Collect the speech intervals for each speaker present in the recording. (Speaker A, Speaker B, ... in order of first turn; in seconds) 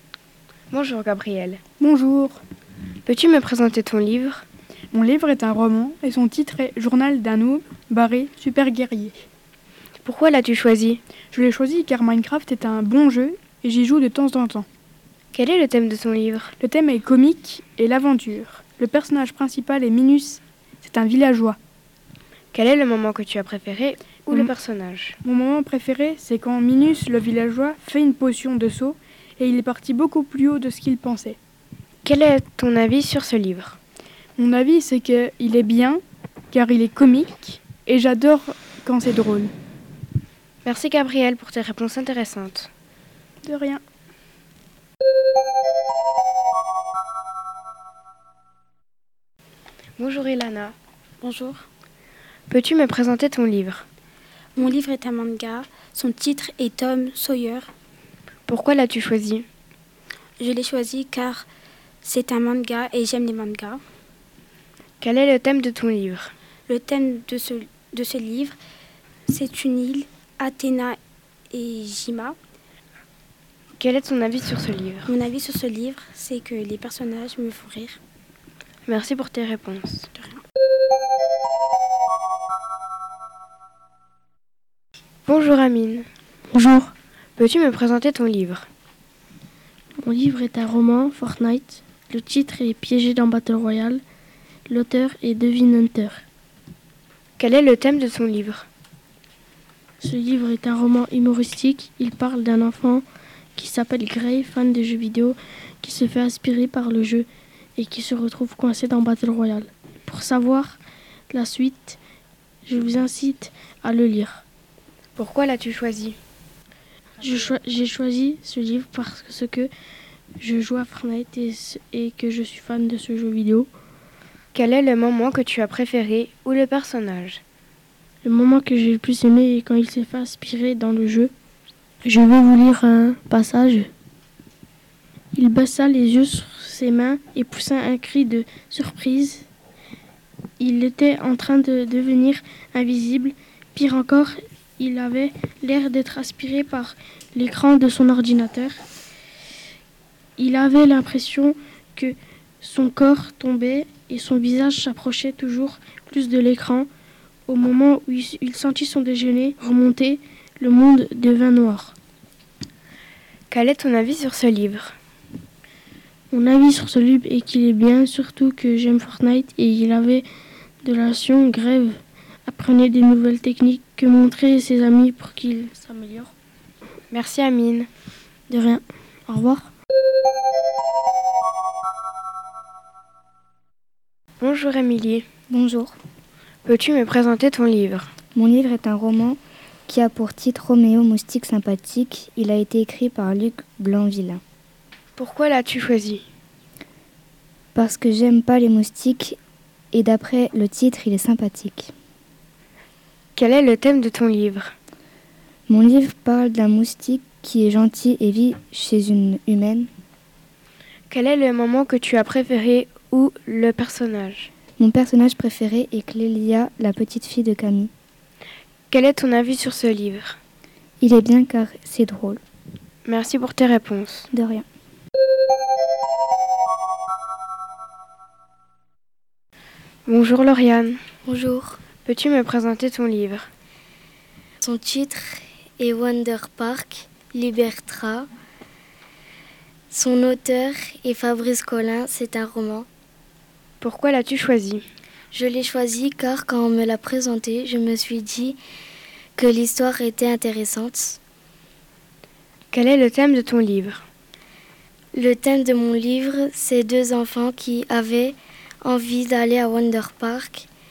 Speaker A: 0.7-1.6, 3.1-4.5, 10.0-11.0, 15.3-16.5, 22.5-25.2, 32.0-33.8, 40.6-42.7, 50.0-50.8, 52.5-53.9, 58.5-59.5, 65.0-66.3, 73.8-75.1, 78.9-80.1, 85.3-86.1, 87.4-88.7, 97.4-98.7, 115.2-116.2, 124.5-127.4, 163.5-164.9, 177.1-177.9, 184.4-185.3, 186.7-188.1, 195.2-196.2, 203.4-204.7, 211.1-214.5, 218.9-220.4, 223.1-224.3, 230.1-231.0, 232.1-233.5, 243.8-244.8, 252.7-254.0
Speaker B: 1.8-2.4, 4.9-9.2, 11.3-14.7, 16.6-21.6, 25.2-31.4, 34.4-39.5, 43.4-43.8
Speaker C: 51.2-51.6, 54.6-57.7, 60.4-61.5, 62.0-63.8, 66.7-68.6, 69.3-71.0, 71.5-72.4, 75.0-78.0
Speaker D: 86.5-86.9, 90.0-94.0, 94.7-96.2, 100.0-103.0, 103.6-110.8, 111.3-112.0, 112.7-114.4, 117.2-119.7, 120.4-123.7, 128.2-131.3, 132.0-133.9, 135.3-139.5, 140.6-148.8, 150.4-156.9, 157.5-161.9, 166.3-170.3, 170.8-176.3, 178.5-179.7
Speaker E: 185.5-185.9, 188.3-194.4, 197.8-199.4, 199.9-201.9, 205.7-209.9, 214.8-217.9, 221.0-222.4, 224.3-224.7
Speaker F: 231.3-231.8, 234.6-238.3, 239.9-242.9, 245.3-248.6, 249.4-251.2, 255.1-260.7